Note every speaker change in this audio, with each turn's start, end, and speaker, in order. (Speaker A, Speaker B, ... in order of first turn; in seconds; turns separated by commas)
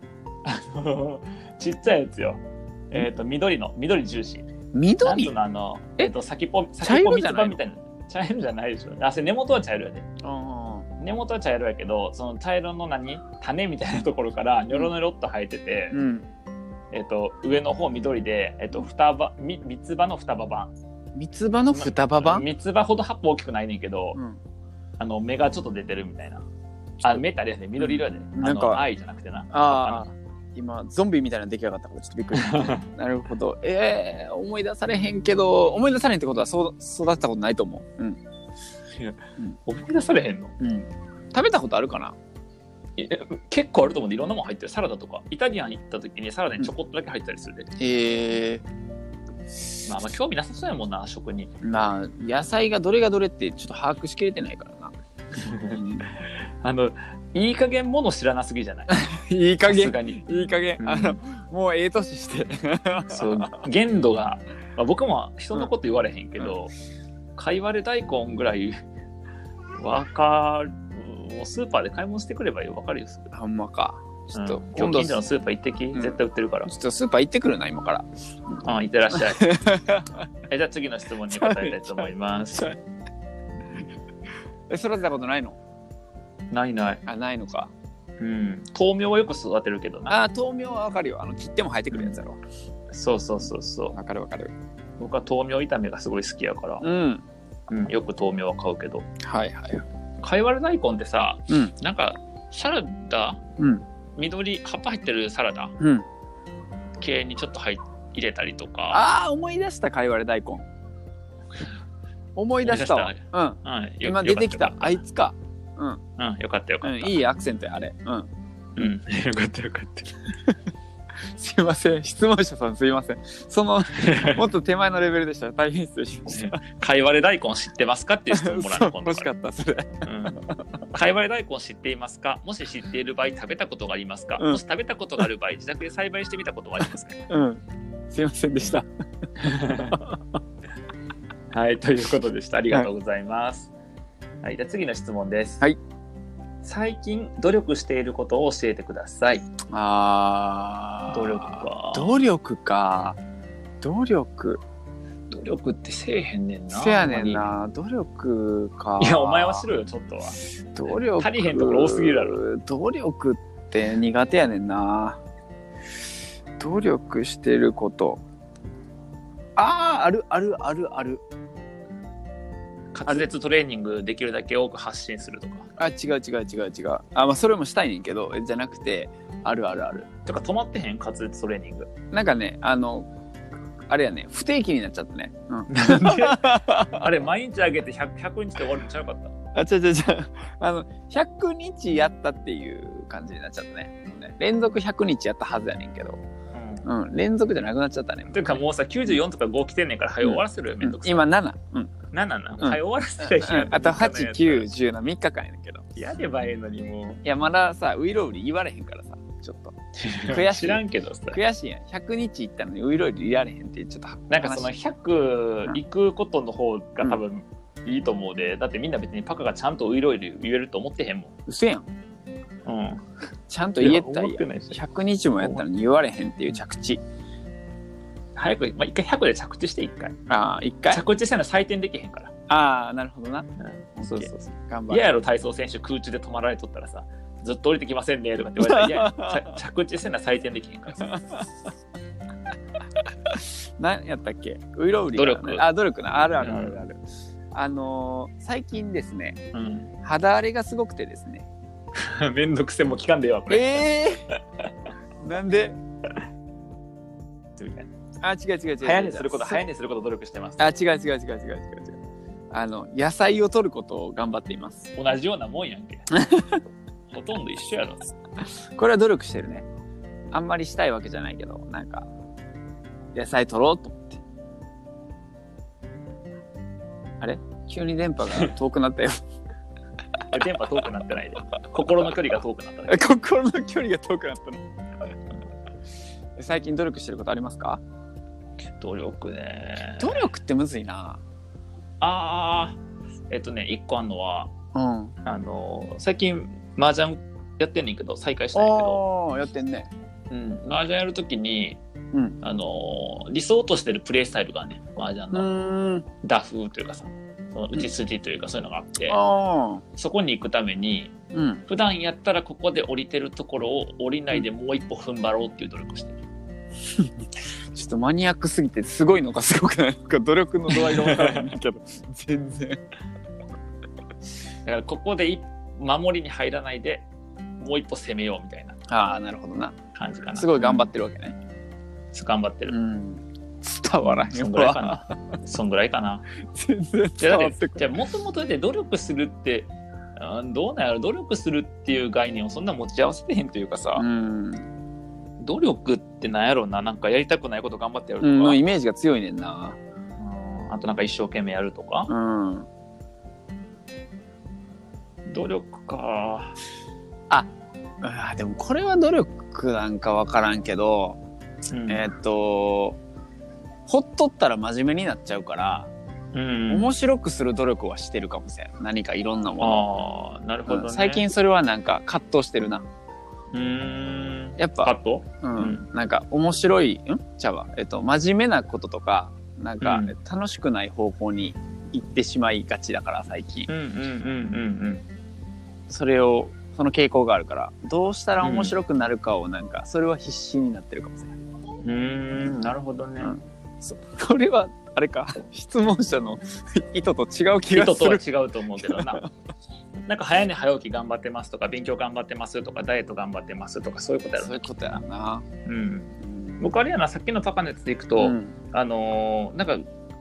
Speaker A: 0.5-4.5, Speaker B: 4.7-5.3, Speaker A: 5.0-10.1, Speaker B: 6.8-7.6, Speaker B: 10.2-10.9, Speaker A: 11.0-16.0, Speaker B: 15.9-16.3, Speaker A: 16.9-20.7, Speaker B: 21.1-22.5, Speaker A: 21.7-24.2, Speaker B: 24.1-24.4, Speaker A: 25.0-26.4, Speaker A: 27.0-30.1, Speaker B: 27.8-28.9, Speaker B: 29.5-38.2, Speaker A: 32.3-32.9, Speaker A: 39.0-40.5, Speaker B: 40.6-42.1, Speaker A: 43.0-47.7, Speaker B: 47.8-48.6, Speaker A: 49.9-51.5, Speaker B: 51.6-54.9, Speaker A: 55.4-59.0, Speaker B: 55.5-56.1, Speaker B: 58.9-63.6, Speaker A: 59.7-60.2, Speaker A: 60.8-61.2, Speaker A: 63.1-66.7, Speaker A: 67.3-68.8, Speaker A: 69.8-73.3, Speaker B: 73.3-75.2, Speaker A: 74.3-76.7, Speaker B: 76.0-80.3, Speaker A: 78.6-79.5, Speaker A: 80.5-82.8, Speaker B: 81.3-82.7, Speaker B: 84.7-85.6, Speaker A: 86.5-87.0, Speaker B: 87.1-87.7, Speaker A: 88.2-90.2, Speaker B: 90.1-92.4, Speaker A: 92.9-94.0, Speaker B: 93.9-94.5, Speaker A: 95.0-96.8, Speaker B: 96.8-97.2, Speaker A: 97.7-99.1, Speaker B: 99.2-99.8, Speaker A: 100.2-103.4, Speaker A: 104.2-105.7, Speaker B: 105.8-106.1, Speaker A: 107.0-109.0, Speaker B: 108.9-110.7, Speaker B: 112.4-116.0, Speaker A: 112.6-115.0, Speaker A: 116.2-117.2, Speaker B: 116.8-118.3, Speaker A: 118.8-120.3, Speaker B: 121.3-126.6, Speaker A: 123.9-124.5, Speaker A: 126.3-129.3, Speaker B: 128.3-130.6, Speaker A: 130.0-137.3, Speaker B: 134.4-134.6, Speaker B: 137.3-138.9, Speaker A: 139.4-140.1, Speaker A: 141.5-143.7, Speaker A: 144.4-145.7, Speaker A: 146.6-149.5, Speaker B: 149.7-153.2, Speaker A: 151.1-152.1, Speaker B: 153.8-154.6, Speaker A: 155.3-157.5, Speaker B: 156.7-159.7, Speaker A: 159.0-160.4, Speaker B: 160.8-165.2, Speaker A: 161.2-162.4, Speaker B: 166.6-168.2, Speaker B: 169.6-171.2, Speaker A: 172.9-175.7, Speaker B: 175.8-180.1, Speaker A: 180.2-181.9, Speaker B: 182.1-183.1, Speaker B: 183.9-187.1, Speaker A: 185.7-189.3, Speaker B: 189.5-196.2, Speaker A: 196.5-196.9, Speaker B: 196.8-198.6, Speaker A: 198.3-201.2, Speaker B: 200.2-201.9, Speaker A: 202.1-204.7, Speaker B: 202.6-205.8, Speaker A: 205.9-207.2, Speaker B: 207.2-214.7, Speaker A: 210.0-211.4, Speaker A: 214.3-221.3, Speaker B: 221.5-221.9, Speaker A: 222.7-223.0, Speaker B: 223.5-227.0, Speaker A: 223.8-224.8, Speaker A: 228.4-230.2, Speaker B: 230.3-231.1, Speaker A: 230.9-232.3, Speaker B: 232.5-235.1, Speaker A: 233.6-241.2, Speaker B: 238.6-239.5, Speaker B: 243.3-247.0, Speaker A: 245.1-245.6, Speaker A: 246.4-246.8, Speaker B: 247.5-249.4, Speaker A: 249.5-249.9, Speaker B: 250.0-251.5, Speaker A: 252.0-254.0, Speaker B: 253.5-254.3, Speaker B: 255.2-255.8, Speaker A: 257.6-257.9, Speaker B: 258.2-259.6, Speaker A: 258.8-260.7, Speaker B: 260.6-262.0, Speaker B: 262.5-264.9, Speaker A: 264.9-266.1, Speaker B: 266.2-266.6, Speaker A: 267.1-268.1, Speaker B: 268.7-269.7, Speaker B: 270.3-272.1, Speaker B: 273.1-274.2, Speaker B: 277.2-279.2, Speaker A: 280.3-283.0, Speaker B: 282.9-284.6, Speaker B: 286.4-287.8, Speaker A: 288.8-290.2, Speaker B: 290.0-291.2, Speaker A: 292.0-292.8, Speaker A: 293.3-294.5, Speaker B: 294.8-295.1, Speaker A: 295.2-299.0, Speaker B: 298.6-299.9, Speaker A: 300.3-301.8, Speaker A: 302.4-305.5, Speaker B: 305.3-306.1, Speaker A: 306.2-309.2, Speaker B: 309.1-309.8, Speaker A: 309.9-311.1, Speaker B: 311.3-311.6, Speaker A: 311.7-316.2, Speaker B: 317.7-322.8, Speaker A: 320.7-321.6, Speaker A: 324.6-327.1, Speaker A: 327.6-328.8, Speaker B: 328.9-329.8, Speaker A: 329.9-330.9, Speaker B: 330.4-331.4, Speaker A: 332.1-332.8, Speaker B: 332.7-335.2, Speaker A: 334.1-336.3, Speaker B: 336.5-338.0, Speaker A: 337.2-344.1, Speaker B: 344.0-344.7, Speaker A: 345.4-348.6, Speaker B: 348.2-349.8, Speaker A: 350.2-352.1, Speaker B: 352.1-352.7, Speaker A: 355.3-356.6, Speaker B: 358.0-361.2, Speaker A: 361.7-362.1, Speaker B: 361.9-363.0, Speaker B: 363.9-365.9, Speaker A: 366.3-366.9, Speaker B: 366.7-369.9, Speaker A: 369.6-371.2, Speaker B: 370.7-372.9, Speaker A: 373.5-375.9, Speaker B: 374.6-383.7, Speaker A: 379.8-380.1, Speaker A: 383.7-385.1, Speaker B: 385.9-391.4, Speaker A: 388.4-388.8, Speaker A: 391.8-393.4, Speaker B: 393.2-398.2, Speaker A: 397.7-399.2, Speaker B: 398.8-399.3, Speaker A: 400.1-404.7, Speaker B: 404.4-405.4, Speaker A: 405.7-409.8, Speaker B: 406.3-406.6, Speaker B: 408.2-408.6